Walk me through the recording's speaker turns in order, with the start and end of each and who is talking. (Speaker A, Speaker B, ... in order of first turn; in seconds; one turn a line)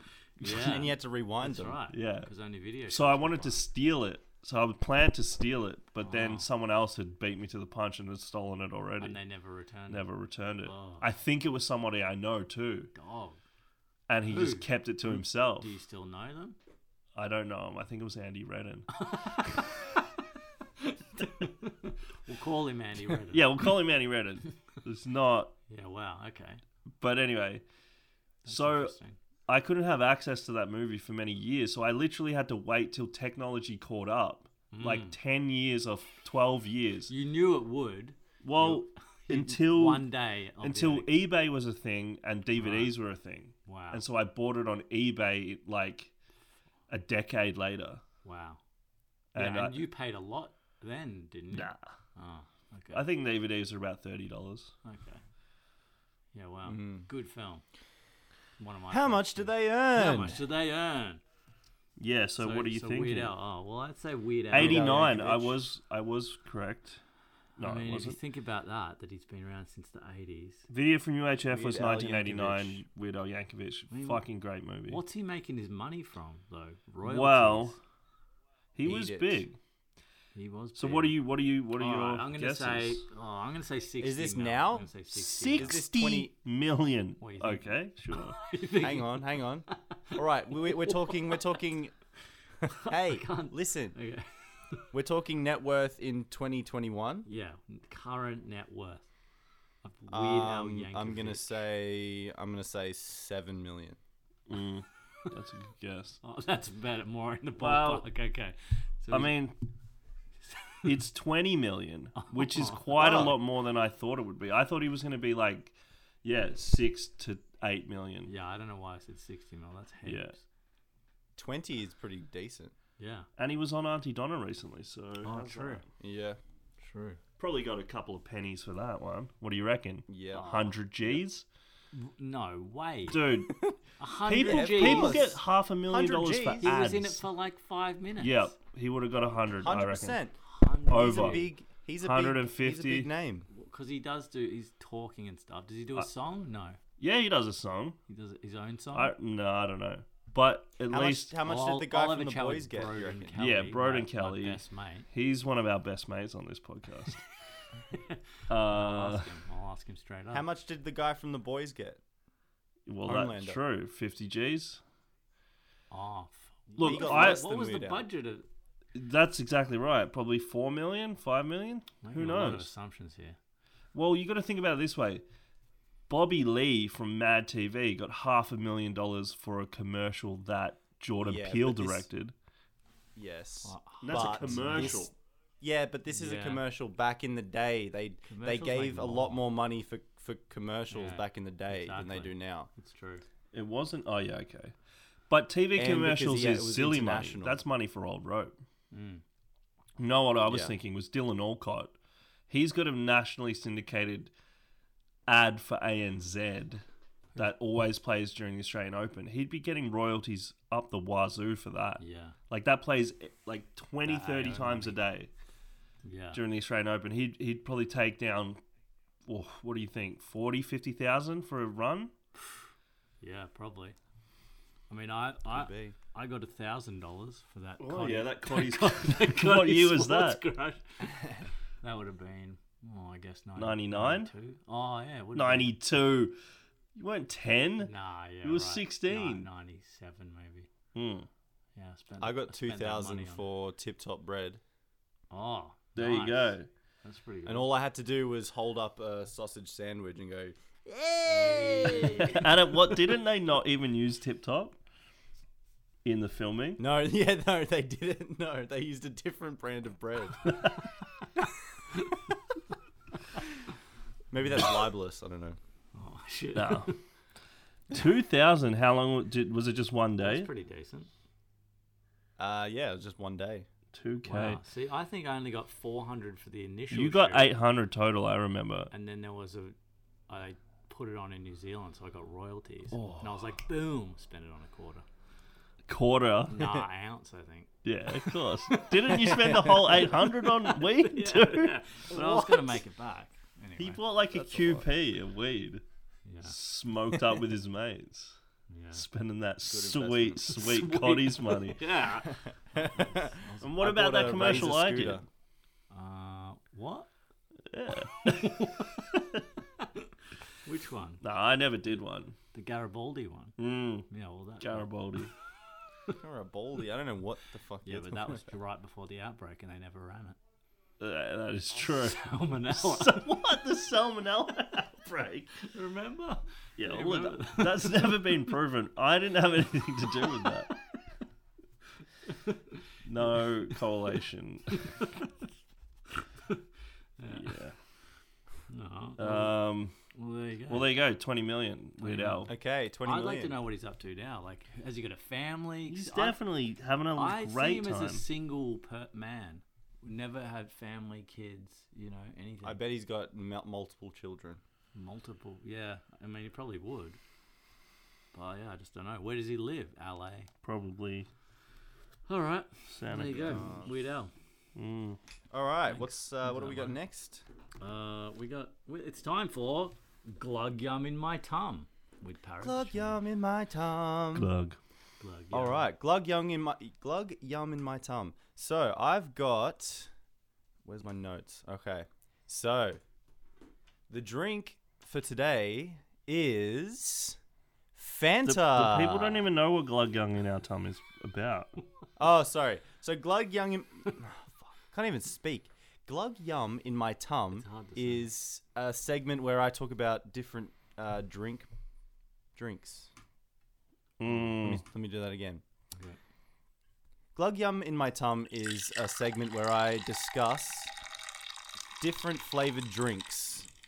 Speaker A: 0.4-3.6
Speaker B: 0.4-0.8
Speaker C: 0.5-1.8
Speaker B: 1.9-2.3
Speaker B: 2.9-9.2
Speaker A: 6.0-6.5
Speaker A: 9.0-10.1
Speaker B: 9.9-12.9
Speaker A: 10.6-11.1
Speaker A: 12.9-13.4
Speaker B: 14.1-15.7
Speaker A: 14.2-16.6
Speaker B: 17.1-19.1
Speaker A: 19.0-19.5
Speaker A: 20.9-23.5
Speaker B: 23.3-25.6
Speaker A: 25.7-26.6
Speaker B: 27.0-27.6
Speaker A: 28.4-29.2
Speaker B: 28.5-28.9
Speaker B: 29.5-37.1
Speaker A: 34.7-35.2
Speaker A: 37.1-41.1
Speaker B: 38.4-46.1
Speaker A: 42.6-42.9
Speaker A: 43.7-44.0
Speaker B: 46.9-48.0
Speaker A: 48.2-48.6
Speaker B: 49.3-49.9
Speaker A: 49.3-53.0
Speaker B: 51.5-51.9
Speaker B: 52.9-54.7
Speaker A: 54.8-55.2
Speaker A: 56.3-57.6
Speaker C: 56.7-57.1
Speaker A: 58.6-61.2
Speaker C: 58.9-60.4
Speaker B: 62.0-63.3
Speaker A: 62.4-65.2
Speaker B: 64.5-67.0
Speaker C: 64.5-65.6
Speaker B: 67.6-68.2
Speaker A: 67.6-70.7
Speaker B: 70.7-75.0
Speaker C: 71.5-72.8
Speaker A: 73.9-74.2
Speaker A: 74.9-77.8
Speaker B: 77.0-77.8
Speaker B: 78.8-79.6
Speaker C: 78.8-79.4
Speaker A: 80.3-81.2
Speaker B: 80.8-83.0
Speaker A: 81.8-85.8
Speaker C: 84.0-86.3
Speaker B: 85.1-88.4
Speaker A: 87.2-91.3
Speaker C: 88.8-91.9
Speaker C: 92.6-94.0
Speaker A: 92.7-94.8
Speaker C: 94.9-97.3
Speaker A: 97.3-99.1
Speaker A: 99.8-101.5
Speaker C: 100.1-104.0
Speaker B: 104.5-106.2
Speaker A: 106.2-109.3
Speaker B: 107.6-108.1
Speaker B: 109.1-109.5
Speaker A: 110.5-110.9
Speaker B: 110.8-118.3
Speaker A: 112.2-113.3
Speaker C: 113.0-113.3
Speaker A: 118.3-120.4
Speaker B: 120.0-120.3
Speaker C: 121.4-122.7
Speaker A: 123.0-123.3
Speaker B: 123.4-125.9
Speaker A: 125.2-125.8
Speaker C: 126.0-126.4
Speaker A: 126.8-127.2
Speaker B: 127.4-131.4
Speaker C: 130.1-130.4
Speaker A: 130.3-130.8
Speaker A: 131.9-133.2
Speaker B: 133.1-133.7
Speaker C: 133.5-133.8
Speaker A: 134.0-135.3
Speaker B: 134.2-137.2
Speaker C: 134.4-136.8
Speaker A: 136.6-138.5
Speaker B: 138.2-140.2
Speaker C: 139.6-140.3
Speaker A: 140.4-141.5
Speaker B: 140.9-141.5
Speaker C: 140.9-143.5
Speaker B: 142.0-143.1
Speaker A: 143.5-146.8
Speaker B: 147.0-148.0
Speaker A: 148.1-149.1
Speaker B: 148.9-151.3
Speaker C: 150.9-153.3
Speaker A: 151.4-155.1
Speaker B: 153.4-157.3
Speaker A: 157.9-160.4
Speaker B: 158.5-159.3
Speaker C: 160.3-162.0
Speaker B: 162.9-164.8
Speaker C: 163.1-163.6
Speaker A: 165.9-168.5
Speaker B: 166.8-167.4
Speaker C: 166.8-168.0
Speaker B: 168.9-172.7
Speaker A: 172.0-173.4
Speaker B: 173.9-175.2
Speaker B: 176.1-182.3
Speaker C: 181.2-182.1
Speaker C: 183.2-192.7
Speaker A: 183.6-185.0
Speaker B: 184.0-185.1
Speaker A: 186.1-186.6
Speaker A: 188.3-189.4
Speaker A: 190.9-193.3
Speaker B: 193.5-194.7
Speaker B: 195.3-198.6
Speaker C: 195.8-197.6
Speaker A: 198.9-199.2
Speaker B: 200.0-201.9
Speaker C: 200.4-200.7
Speaker B: 202.5-204.3
Speaker B: 205.3-206.8
Speaker B: 207.4-215.3
Speaker A: 212.0-212.4
Speaker A: 214.0-214.9
Speaker A: 216.0-216.4
Speaker B: 216.3-218.6
Speaker B: 219.3-222.1
Speaker A: 223.2-224.0
Speaker A: 224.9-235.7
Speaker C: 225.5-225.9
Speaker B: 227.8-230.4
Speaker B: 233.6-234.3
Speaker B: 235.3-236.4
Speaker B: 236.9-239.5
Speaker A: 237.8-240.7
Speaker B: 240.9-241.3
Speaker A: 241.8-243.4
Speaker C: 242.2-244.6
Speaker A: 245.3-247.7
Speaker B: 245.9-246.7
Speaker C: 247.4-252.5
Speaker A: 251.2-252.4
Speaker B: 252.2-254.8
Speaker B: 256.1-256.8
Speaker C: 256.8-260.6
Speaker B: 260.5-260.8
Speaker C: 264.3-265.6
Speaker A: 265.9-267.0
Speaker B: 266.6-266.9
Speaker B: 267.9-270.5
Speaker A: 270.2-271.1
Speaker C: 272.4-273.7
Speaker B: 273.9-274.6
Speaker A: 274.2-277.5
Speaker B: 276.9-278.9
Speaker A: 278.9-279.8
Speaker A: 280.3-285.1
Speaker B: 282.9-283.5
Speaker B: 285.9-286.8
Speaker A: 286.5-287.7
Speaker B: 287.8-292.8
Speaker A: 288.7-294.0
Speaker B: 293.8-295.8
Speaker C: 294.3-294.9
Speaker A: 296.3-296.6
Speaker B: 296.4-298.4
Speaker A: 298.7-299.0
Speaker B: 298.9-301.9
Speaker C: 299.7-300.5
Speaker A: 300.5-303.7
Speaker C: 302.3-305.2
Speaker B: 303.6-305.2
Speaker A: 305.9-307.1
Speaker B: 307.7-309.4
Speaker A: 308.2-308.9
Speaker A: 309.8-310.1
Speaker A: 310.6-311.2
Speaker B: 311.2-312.4
Speaker A: 312.5-313.6
Speaker B: 313.6-314.1
Speaker A: 314.1-314.9
Speaker B: 314.6-315.3
Speaker C: 316.2-318.5
Speaker A: 317.8-320.4
Speaker B: 321.0-325.6
Speaker A: 321.8-323.2
Speaker A: 325.6-328.3
Speaker B: 326.8-330.7
Speaker A: 330.4-331.0
Speaker A: 332.2-333.4
Speaker B: 333.1-334.9
Speaker A: 334.7-335.3
Speaker A: 337.2-337.6
Speaker B: 337.3-337.8
Speaker A: 338.7-339.6
Speaker B: 339.2-339.9
Speaker A: 340.1-340.9
Speaker B: 340.7-342.5
Speaker A: 342.0-342.5
Speaker C: 342.5-343.6
Speaker A: 343.0-346.4
Speaker B: 345.9-348.2
Speaker A: 347.1-352.8
Speaker C: 352.6-354.6
Speaker A: 354.9-357.2
Speaker A: 358.3-360.5
Speaker B: 360.6-361.3
Speaker A: 362.3-364.3
Speaker B: 362.9-363.7
Speaker C: 363.4-363.9
Speaker B: 364.8-365.2
Speaker C: 365.5-367.4
Speaker A: 365.9-366.9
Speaker A: 367.8-373.2
Speaker C: 372.6-374.5
Speaker B: 374.3-374.8
Speaker A: 375.2-375.9
Speaker C: 375.5-380.1
Speaker C: 380.8-383.0
Speaker C: 384.1-387.4
Speaker C: 387.9-389.5
Speaker B: 388.4-391.7
Speaker C: 392.2-401.7
Speaker A: 397.5-398.3
Speaker C: 402.6-403.1
Speaker B: 404.2-404.8
Speaker C: 404.5-405.6
Speaker A: 405.9-406.2
Speaker C: 407.4-410.9
Speaker C: 412.0-413.7